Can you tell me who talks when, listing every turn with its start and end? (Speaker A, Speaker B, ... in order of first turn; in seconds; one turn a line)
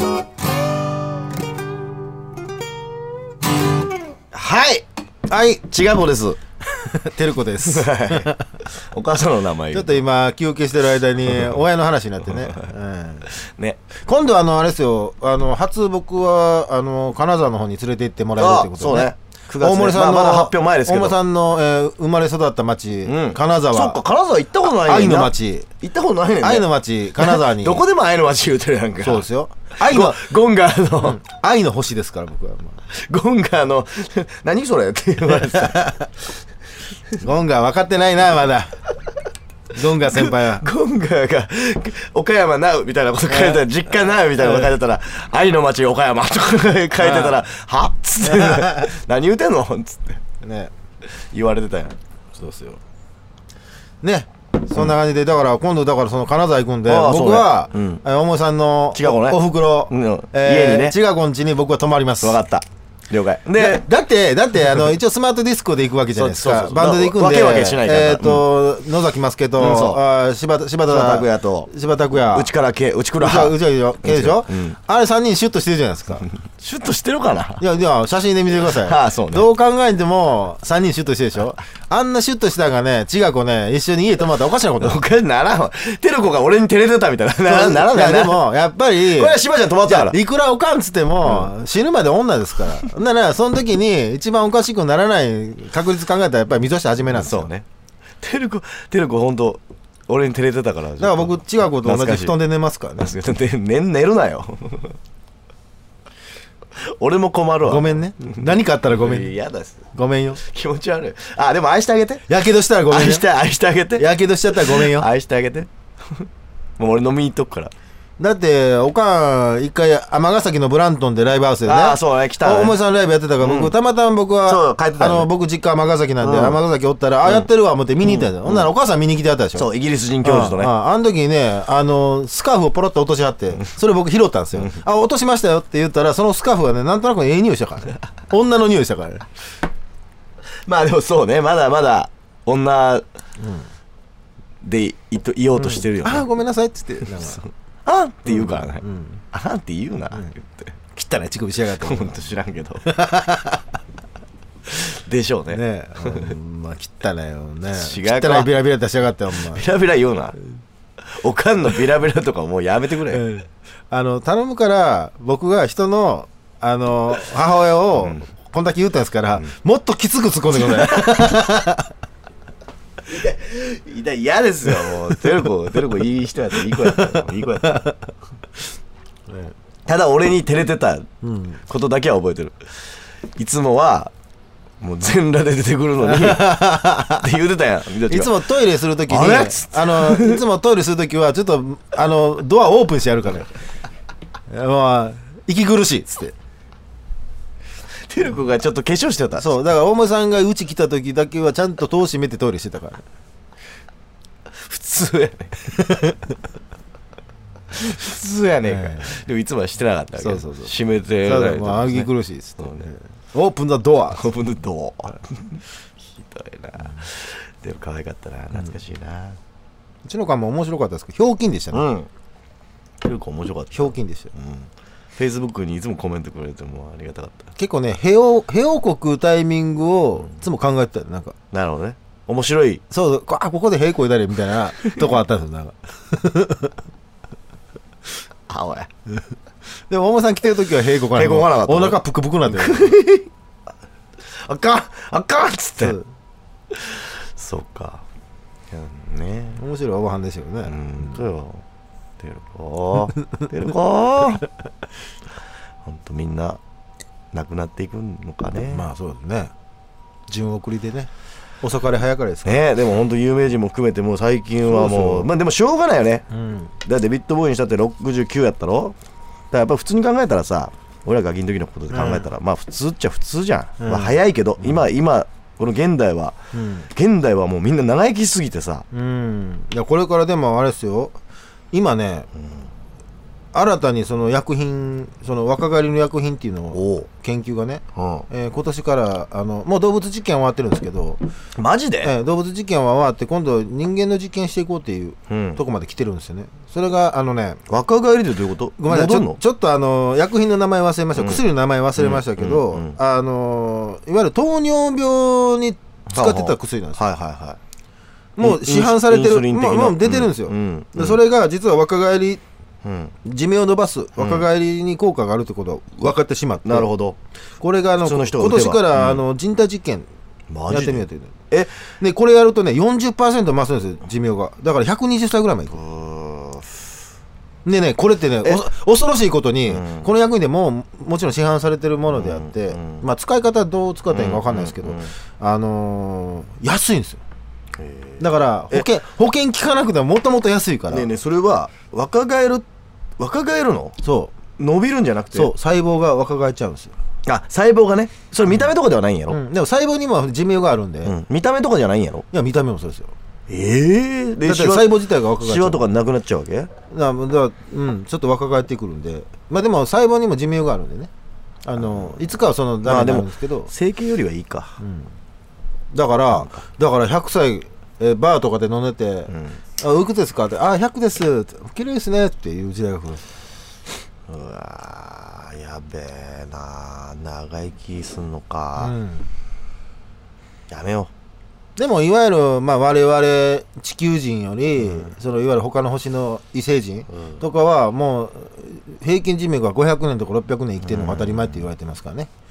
Speaker A: 4.3-4.8
Speaker B: 5.3-5.6
Speaker A: 5.7-6.4
Speaker B: 6.7-8.4
Speaker A: 7.6-10.0
Speaker B: 9.7-13.3
Speaker A: 11.3-11.6
Speaker A: 12.2-12.7
Speaker A: 13.3-13.8
Speaker B: 14.0-24.0
Speaker A: 18.4-21.2
Speaker A: 23.1-26.7
Speaker B: 24.8-25.7
Speaker B: 26.4-27.8
Speaker A: 27.2-29.2
Speaker B: 29.0-30.2
Speaker A: 29.8-31.2
Speaker B: 31.0-32.8
Speaker A: 32.9-35.9
Speaker B: 35.3-36.1
Speaker B: 37.2-38.7
Speaker B: 39.7-40.7
Speaker A: 40.0-50.2
Speaker B: 43.3-43.6
Speaker B: 44.4-44.7
Speaker B: 47.0-47.4
Speaker B: 48.2-48.9
Speaker B: 50.4-50.7
Speaker A: 51.1-52.0
Speaker B: 52.4-52.8
Speaker B: 54.0-62.4
Speaker A: 56.9-58.0
Speaker A: 58.9-61.0
Speaker A: 62.2-63.8
Speaker B: 63.6-72.5
Speaker A: 66.1-68.5
Speaker A: 69.6-70.0
Speaker A: 70.9-74.8
Speaker B: 73.2-76.3
Speaker A: 76.2-77.6
Speaker B: 77.6-85.0
Speaker A: 78.6-79.5
Speaker A: 84.8-90.2
Speaker B: 87.5-97.5
Speaker A: 91.2-91.5
Speaker A: 97.0-97.7
Speaker A: 98.2-102.3
Speaker B: 101.0-103.1
Speaker A: 103.0-105.0
Speaker A: 106.8-109.8
Speaker B: 107.6-109.3
Speaker B: 109.9-110.4
Speaker A: 110.4-112.2
Speaker B: 112.3-113.3
Speaker A: 112.9-117.7
Speaker B: 114.0-115.1
Speaker B: 118.2-129.7
Speaker A: 121.7-122.8
Speaker A: 123.4-123.8
Speaker A: 124.5-125.3
Speaker A: 126.2-126.6
Speaker A: 128.0-128.7
Speaker A: 129.6-130.7
Speaker B: 130.2-139.3
Speaker A: 140.7-143.0
Speaker B: 143.4-143.7
Speaker A: 144.6-146.3
Speaker B: 145.6-147.4
Speaker A: 147.1-150.8
Speaker B: 148.3-149.2
Speaker B: 150.9-153.7
Speaker A: 151.8-152.8
Speaker A: 154.7-156.3
Speaker B: 155.5-159.7
Speaker A: 157.7-158.5
Speaker A: 159.3-160.4
Speaker A: 161.0-163.2
Speaker B: 163.1-171.9
Speaker A: 168.0-168.2
Speaker A: 170.6-171.3
Speaker A: 173.1-177.9
Speaker B: 174.8-175.3
Speaker B: 176.7-178.0
Speaker B: 179.3-179.5
Speaker A: 179.9-181.1
Speaker B: 181.2-181.6
Speaker A: 181.7-182.7
Speaker A: 183.4-184.1
Speaker A: 184.8-188.4
Speaker B: 186.0-187.3
Speaker B: 188.1-193.5
Speaker A: 189.1-190.4
Speaker B: 194.5-196.3
Speaker A: 198.0-199.6
Speaker B: 199.4-203.0
Speaker A: 204.5-205.9
Speaker B: 205.8-206.2
Speaker A: 207.7-212.9
Speaker B: 208.7-209.2
Speaker B: 210.2-210.7
Speaker B: 211.2-214.3
Speaker A: 214.1-219.4
Speaker B: 220.1-221.9
Speaker A: 221.7-222.1
Speaker A: 223.0-227.5
Speaker B: 223.7-224.3
Speaker B: 227.6-231.3
Speaker A: 231.5-232.8
Speaker B: 232.9-236.7
Speaker A: 238.5-238.9
Speaker B: 239.9-242.9
Speaker A: 241.2-243.3
Speaker A: 244.2-246.0
Speaker B: 245.8-246.1
Speaker A: 246.7-248.0
Speaker A: 248.7-249.6
Speaker B: 249.6-251.2
Speaker A: 250.7-251.7
Speaker A: 252.2-254.5
Speaker A: 255.8-256.6
Speaker A: 257.3-258.9
Speaker B: 258.6-259.5
Speaker B: 260.3-261.1
Speaker B: 261.6-262.6
Speaker A: 262.4-266.2
Speaker B: 264.7-265.3
Speaker B: 266.3-266.7
Speaker A: 266.8-268.9
Speaker A: 269.5-276.4
Speaker B: 271.9-272.2
Speaker B: 273.8-274.8
Speaker B: 276.5-276.9
Speaker A: 276.9-278.8
Speaker B: 278.9-281.1
Speaker B: 281.7-282.3
Speaker B: 283.5-291.2
Speaker A: 286.7-287.1
Speaker A: 287.9-288.3
Speaker A: 291.6-292.1
Speaker B: 292.0-297.6
Speaker A: 295.3-295.6
Speaker A: 297.7-299.4
Speaker B: 298.8-307.0
Speaker A: 301.1-301.4
Speaker A: 301.9-303.0
Speaker A: 306.1-307.6
Speaker B: 308.4-312.4
Speaker A: 308.4-311.2
Speaker A: 312.8-313.1
Speaker B: 313.2-316.9
Speaker A: 314.2-314.5
Speaker A: 316.6-317.2
Speaker B: 317.6-320.1
Speaker A: 318.0-319.2
Speaker A: 320.5-321.8
Speaker B: 320.7-321.3
Speaker B: 322.0-325.8
Speaker A: 325.7-326.8
Speaker B: 327.6-337.2
Speaker A: 329.7-330.1
Speaker A: 332.1-333.0
Speaker A: 334.1-335.1
Speaker A: 337.8-338.9
Speaker B: 338.2-341.1
Speaker A: 340.9-342.6
Speaker A: 343.2-344.0
Speaker B: 344.0-344.3
Speaker A: 344.6-345.5
Speaker B: 345.3-346.9
Speaker A: 347.2-349.4
Speaker B: 349.3-351.1
Speaker A: 351.0-352.2
Speaker B: 352.3-353.1
Speaker A: 353.5-356.7
Speaker B: 354.4-355.9
Speaker B: 356.9-361.1
Speaker B: 361.6-363.7
Speaker A: 361.8-362.2
Speaker A: 362.8-364.8
Speaker B: 364.8-365.1
Speaker B: 365.9-373.2
Speaker A: 366.3-366.6
Speaker A: 369.3-369.6
Speaker A: 374.3-378.9
Speaker B: 378.8-379.3
Speaker A: 380.7-381.1
Speaker B: 381.8-392.3
Speaker A: 384.8-385.1
Speaker A: 390.8-391.7